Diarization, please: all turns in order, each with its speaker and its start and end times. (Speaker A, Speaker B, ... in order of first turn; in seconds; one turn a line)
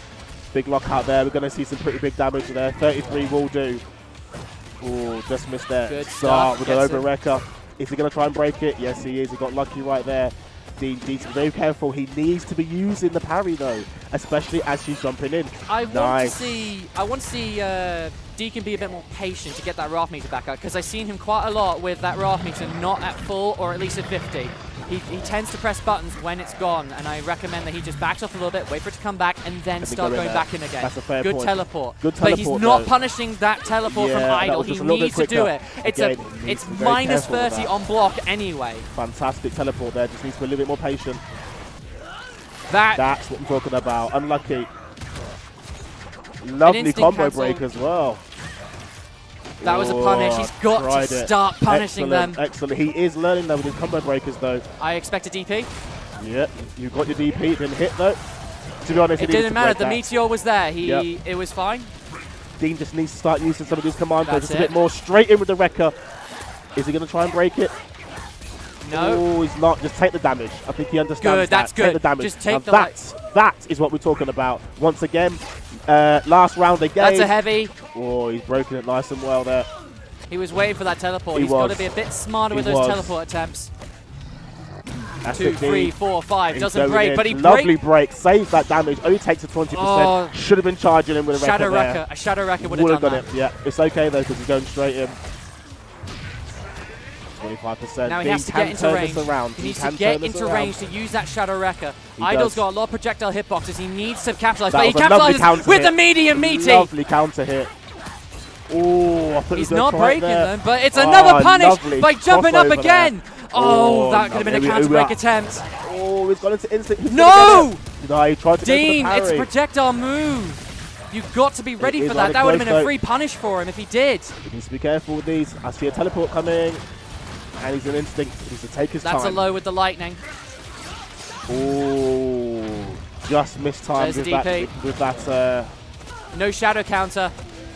Speaker A: 0.5-3.8
Speaker A: 4.8-16.6
Speaker B: 5.9-7.1
Speaker B: 15.7-38.9
Speaker A: 29.8-32.9
Speaker A: 33.8-37.7
Speaker A: 38.9-41.2
Speaker B: 42.7-43.0
Speaker A: 42.9-44.7
Speaker A: 46.4-48.2
Speaker B: 46.6-47.6
Speaker A: 49.6-54.6
Speaker B: 49.6-52.4
Speaker B: 54.8-55.7
Speaker A: 56.2-58.2
Speaker A: 58.8-60.1
Speaker B: 59.2-61.9
Speaker A: 62.6-65.9
Speaker B: 64.2-64.7
Speaker A: 66.8-67.7
Speaker B: 68.8-69.2
Speaker A: 68.9-77.3
Speaker B: 71.2-72.9
Speaker B: 77.0-77.8
Speaker A: 77.9-79.7
Speaker B: 80.3-83.7
Speaker A: 81.3-81.9
Speaker A: 82.5-83.1
Speaker A: 85.2-85.9
Speaker B: 85.3-87.8
Speaker A: 86.5-92.0
Speaker B: 89.7-90.3
Speaker B: 91.3-93.2
Speaker A: 92.6-95.2
Speaker A: 97.4-100.8
Speaker B: 98.0-106.9
Speaker A: 102.2-102.6
Speaker A: 104.7-107.7
Speaker A: 108.7-119.5
Speaker B: 109.5-115.6
Speaker B: 117.1-117.8
Speaker B: 118.6-124.3
Speaker A: 121.8-122.9
Speaker A: 124.4-126.8
Speaker A: 127.6-129.4
Speaker B: 129.0-130.2
Speaker A: 131.5-135.7
Speaker B: 133.9-134.7
Speaker B: 136.3-137.3